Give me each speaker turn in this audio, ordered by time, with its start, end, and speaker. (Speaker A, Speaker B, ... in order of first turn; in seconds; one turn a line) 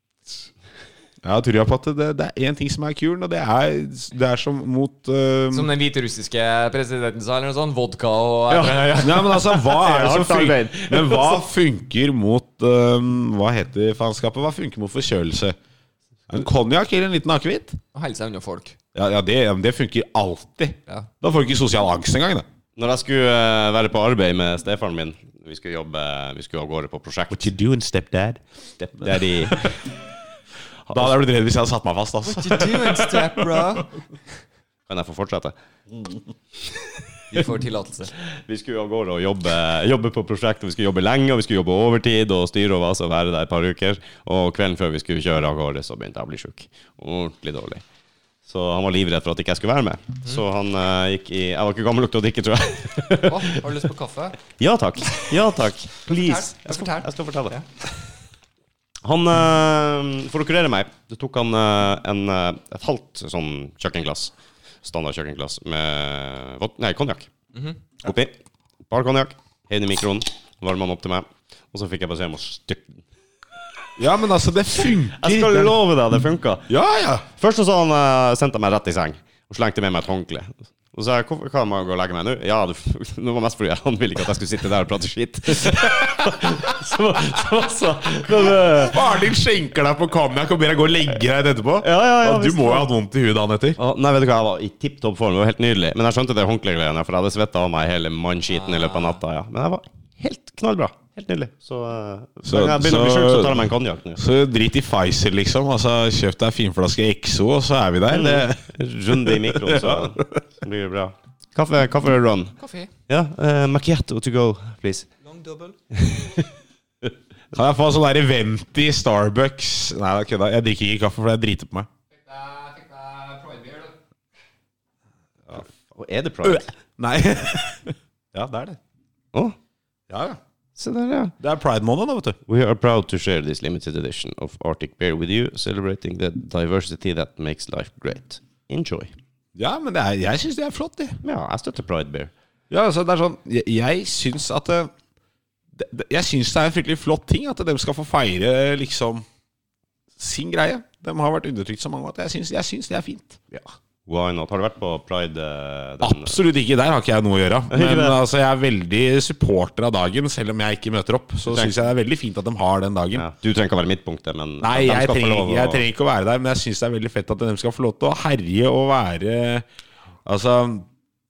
Speaker A: 1.2-5.7
Speaker B: 5.5-9.5
Speaker C: 8.5-11.5
Speaker A: 8.9-15.6
Speaker A: 16.3-17.8
Speaker B: 17.9-18.8
Speaker A: 18.9-22.5
Speaker C: 22.8-27.5
Speaker A: 27.3-28.4
Speaker C: 28.8-29.8
Speaker A: 29.0-29.8
Speaker A: 30.9-33.8
Speaker B: 32.2-33.9
Speaker C: 34.9-35.5
Speaker B: 37.3-38.1
Speaker C: 38.3-47.8
Speaker C: 48.5-53.6
Speaker B: 53.2-54.4
Speaker C: 54.6-57.6
Speaker B: 56.1-57.7
Speaker C: 59.0-64.3
Speaker C: 64.8-67.3
Speaker C: 68.0-68.3
Speaker C: 68.9-73.0
Speaker A: 74.0-75.8
Speaker C: 75.2-76.7
Speaker A: 76.7-77.3
Speaker C: 77.4-89.1
Speaker A: 88.4-93.8
Speaker C: 91.8-92.9
Speaker C: 93.8-104.2
Speaker B: 98.5-99.2
Speaker A: 102.5-110.4
Speaker C: 108.1-112.6
Speaker B: 112.6-112.9
Speaker C: 113.1-115.1
Speaker B: 115.2-115.8
Speaker C: 115.9-116.5
Speaker A: 117.5-121.9
Speaker B: 122.2-123.9
Speaker C: 125.5-126.7
Speaker A: 127.0-128.8
Speaker A: 130.1-130.4
Speaker C: 130.8-131.3
Speaker A: 131.4-132.4
Speaker C: 132.5-139.1
Speaker A: 139.6-141.2
Speaker C: 141.2-142.3
Speaker A: 142.7-144.9
Speaker A: 145.8-149.2
Speaker A: 150.2-153.4
Speaker C: 153.5-156.4
Speaker A: 156.0-163.3
Speaker C: 157.7-158.2
Speaker C: 161.5-161.8
Speaker C: 163.2-165.8
Speaker A: 164.6-169.7
Speaker A: 170.2-170.9